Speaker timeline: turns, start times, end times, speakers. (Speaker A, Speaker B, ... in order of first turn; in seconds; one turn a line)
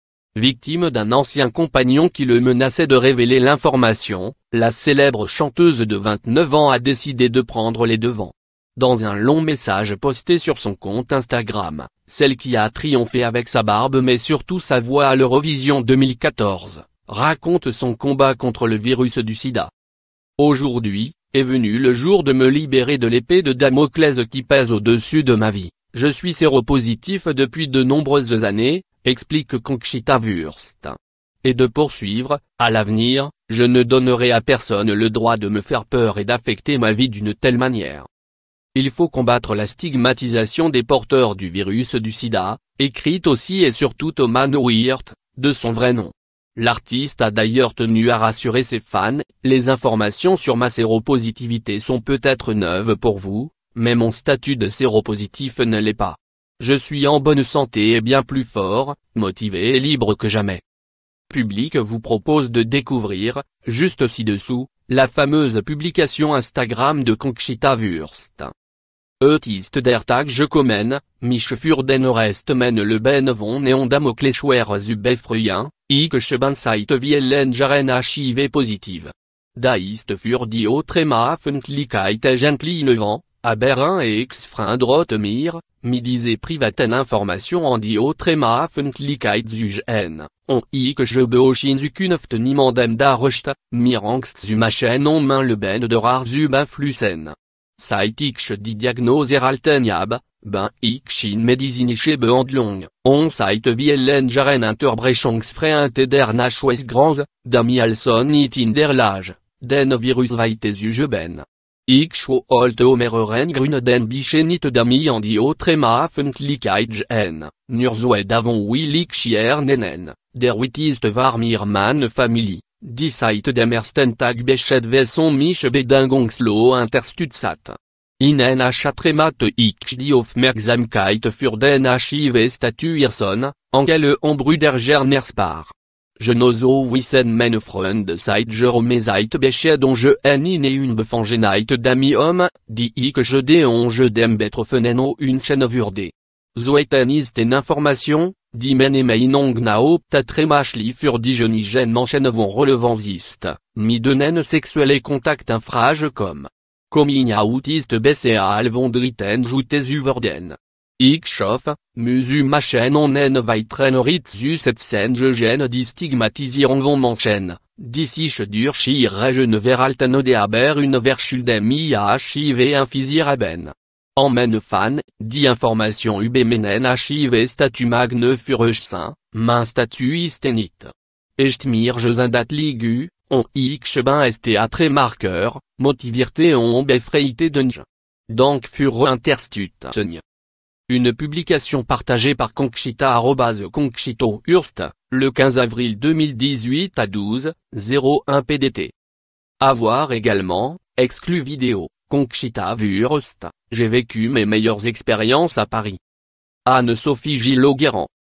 Speaker A: 0.3-19.7
Speaker A: 20.4-38.1
Speaker A: 38.8-60.6
Speaker A: 61.3-68.5
Speaker A: 69.2-190.2
Speaker A: 190.9-198.9
Speaker A: 199.6-206.0
Speaker A: 206.7-208.1